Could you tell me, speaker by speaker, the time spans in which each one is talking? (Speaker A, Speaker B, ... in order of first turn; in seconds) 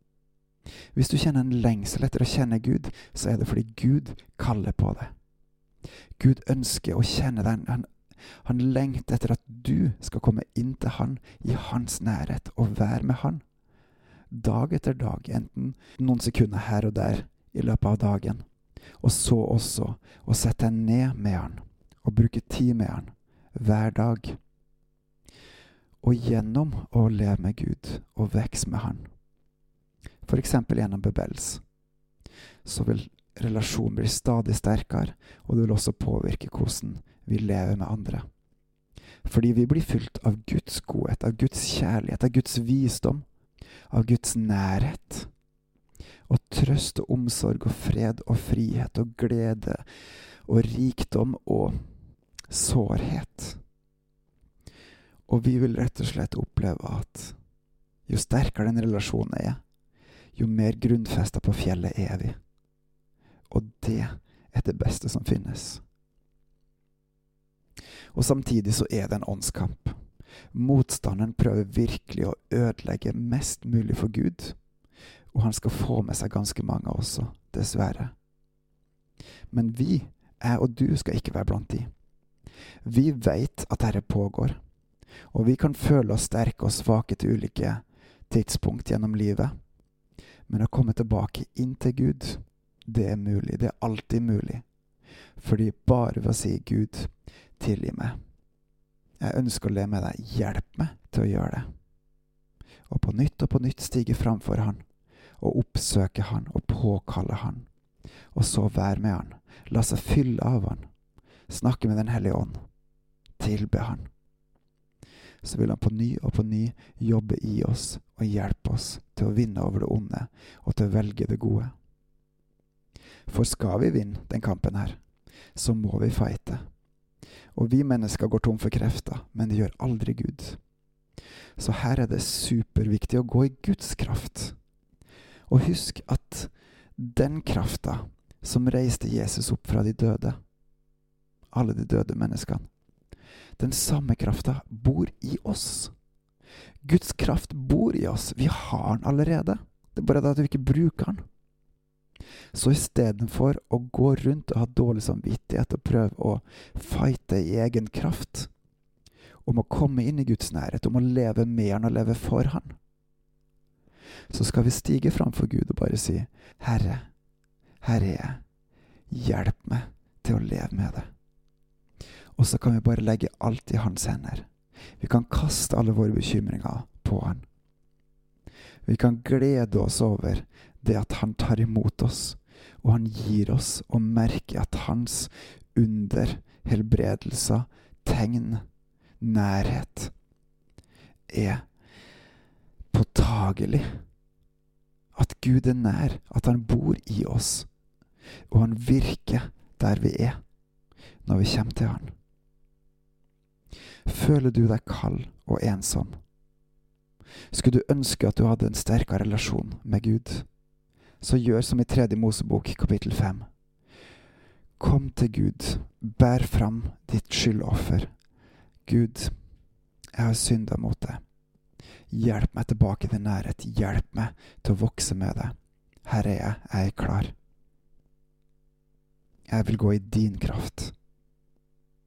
Speaker A: 0.9-5.1, 6.2-7.9, 8.4-13.4, 14.3-18.4, 19.0-24.4, 26.0-29.1, 30.2-31.6, 32.6-38.2, 39.2-43.2, 43.9-45.3, 46.3-49.8, 50.5-51.8, 52.5-53.6, 55.3-57.4, 58.1-59.6, 60.3-62.4, 63.5-65.8, 68.1-70.0, 70.5-74.6, 75.3-78.1, 79.5-81.9, 82.8-84.6, 85.3-89.5, 90.5-94.6, 95.4-98.2, 99.2-101.7, 102.9-104.8, 105.4-107.7, 108.3-110.9, 111.5-112.6, 113.4-114.1, 115.4-121.7, 123.3-125.0, 125.5-126.6, 127.5-130.6, 131.6-134.6, 135.5-140.4, 141.5-142.6, 143.6-145.9, 146.8-151.2, 152.5-158.5, 159.4-162.8, 164.3-167.1, 167.8-168.4, 169.1-171.1, 172.3-174.5, 175.0-177.4, 178.8-188.6, 189.2-190.1, 191.3-191.6, 192.9-193.9, 195.1-197.7, 198.5-200.4, 201.2-202.1, 204.1-206.1, 207.5-210.5, 211.2-213.4, 214.8-218.1, 218.8-219.3, 220.1-221.2, 222.1-227.3, 229.5-230.9